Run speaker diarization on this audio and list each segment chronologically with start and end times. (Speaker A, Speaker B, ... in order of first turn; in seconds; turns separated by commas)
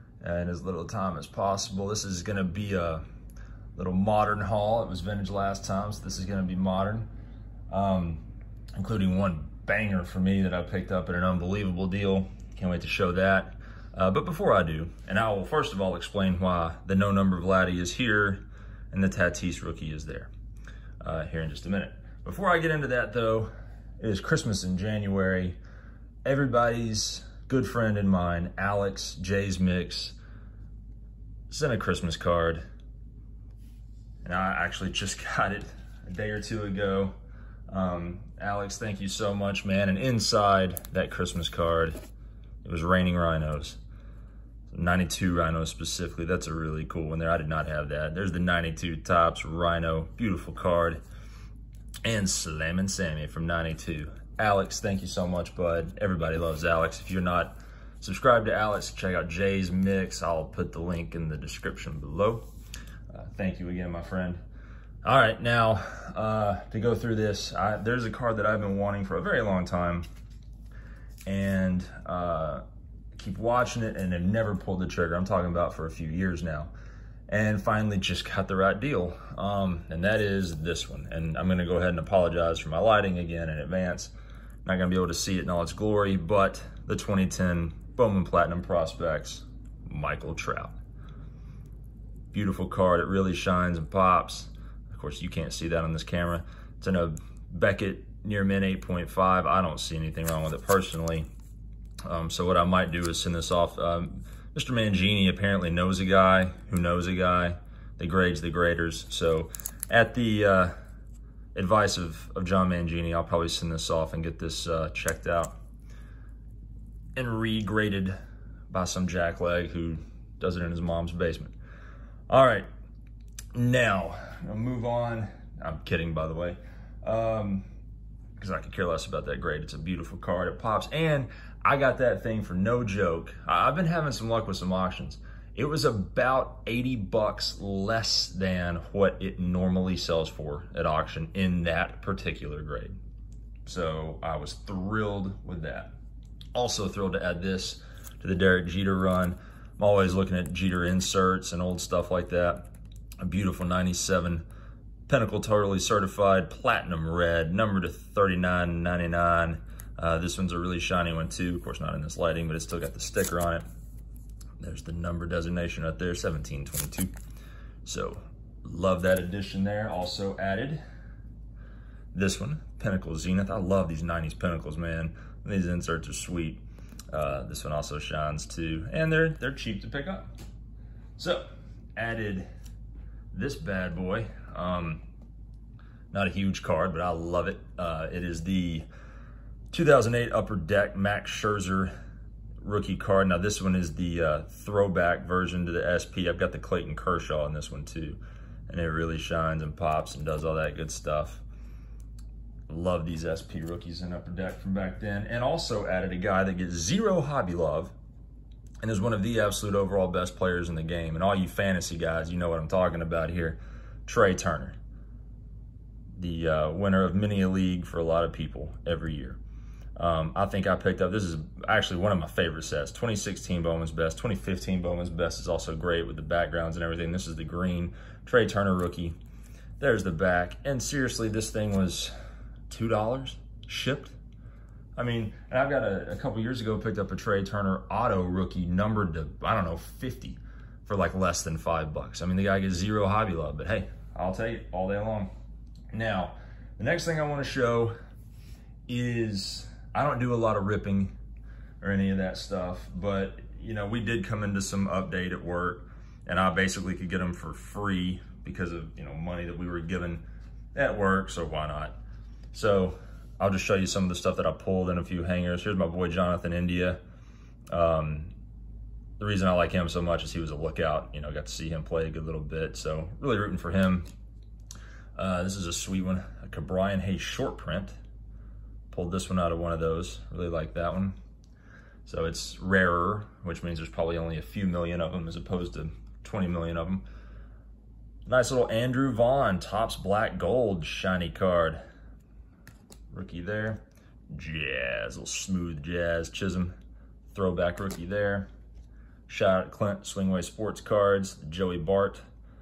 Speaker A: 0.2-3.0, Speaker A: 3.8-7.1, Speaker A: 7.7-20.3, Speaker A: 21.0-25.6, Speaker A: 26.2-30.2, Speaker A: 31.5-32.6, Speaker A: 34.2-37.1, Speaker A: 37.7-42.0, Speaker A: 42.6-43.8, Speaker A: 44.7-51.0, Speaker A: 52.0-62.5, Speaker A: 63.1-64.4, Speaker A: 65.0-70.1, Speaker A: 71.3-72.6, Speaker A: 73.2-76.7, Speaker A: 77.3-84.1, Speaker A: 84.7-90.8, Speaker A: 92.3-101.3, Speaker A: 102.0-110.7, Speaker A: 111.5-115.5, Speaker A: 117.2-118.2, Speaker A: 118.7-121.5, Speaker A: 122.3-122.7, Speaker A: 123.5-127.7, Speaker A: 128.4-143.0, Speaker A: 143.7-145.9, Speaker A: 146.5-152.7, Speaker A: 153.2-154.4, Speaker A: 155.1-163.6, Speaker A: 164.6-167.1, Speaker A: 167.8-170.8, Speaker A: 172.1-180.3, Speaker A: 181.2-181.4, Speaker A: 182.0-182.5, Speaker A: 183.3-185.0, Speaker A: 186.1-188.9, Speaker A: 189.7-191.9, Speaker A: 192.6-201.4, Speaker A: 202.7-207.9, Speaker A: 208.8-214.8, Speaker A: 216.1-219.4, Speaker A: 220.0-229.1, Speaker A: 229.8-232.1, Speaker A: 232.7-234.2, Speaker A: 235.0-245.3, Speaker A: 245.9-247.9, Speaker A: 248.9-251.1, Speaker A: 251.8-260.2, Speaker A: 260.7-262.0, Speaker A: 262.5-267.0, Speaker A: 267.7-268.3, Speaker A: 269.2-274.1, Speaker A: 275.2-278.0, Speaker A: 278.9-281.1, Speaker A: 282.1-287.0, Speaker A: 288.3-291.8, Speaker A: 293.1-296.7, Speaker A: 297.3-298.5, Speaker A: 299.3-302.2